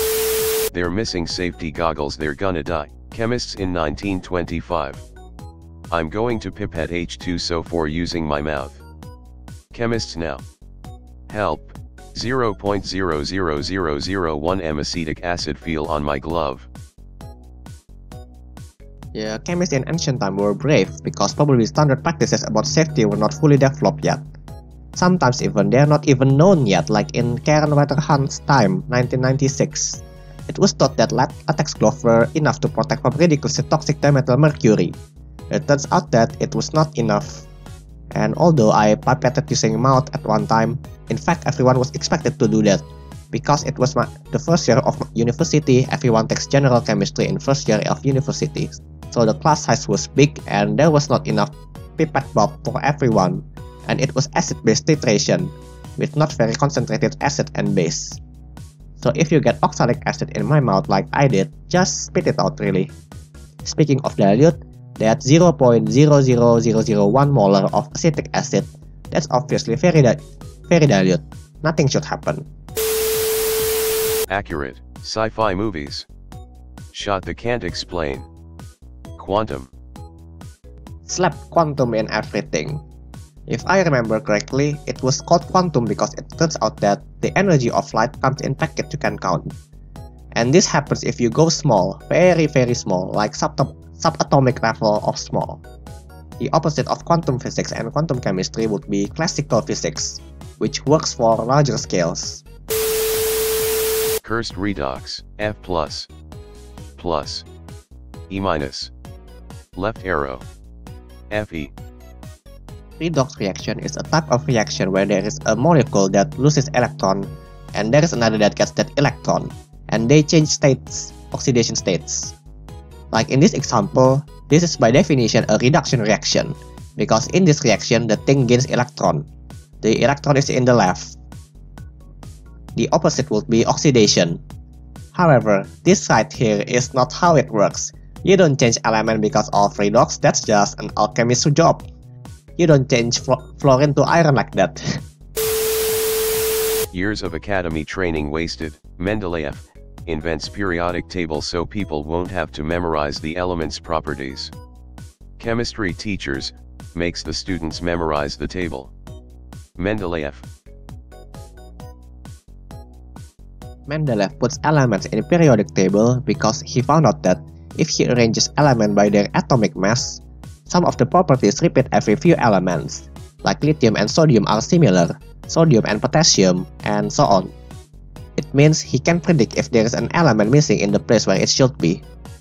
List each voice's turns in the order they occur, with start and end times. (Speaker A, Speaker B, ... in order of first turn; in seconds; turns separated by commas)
Speaker A: 0.7-5.0, Speaker A: 5.9-8.8, Speaker A: 9.7-10.4, Speaker A: 11.3-16.7, Speaker B: 19.1-24.2, Speaker B: 24.9-35.0, Speaker B: 35.5-37.5, Speaker B: 38.1-58.2, Speaker B: 59.0-62.9, Speaker B: 63.6-72.5, Speaker A: 74.3-76.1, Speaker A: 76.9-78.3, Speaker A: 79.2-79.7, Speaker B: 81.1-82.8, Speaker B: 83.5-89.5, Speaker B: 90.3-95.6, Speaker B: 96.4-102.4, Speaker A: 104.2-106.1, Speaker A: 107.0-107.5, Speaker A: 108.3-108.9, Speaker A: 109.8-110.4, Speaker A: 111.3-111.7, Speaker B: 113.0-122.3, Speaker B: 123.1-129.3, Speaker B: 129.8-131.2, Speaker B: 132.8-134.4, Speaker B: 135.1-141.9, Speaker B: 142.6-145.0, Speaker A: 146.9-154.5, Speaker A: 155.4-158.9, Speaker A: 159.8-160.4, Speaker B: 163.9-177.5, Speaker B: 178.4-182.0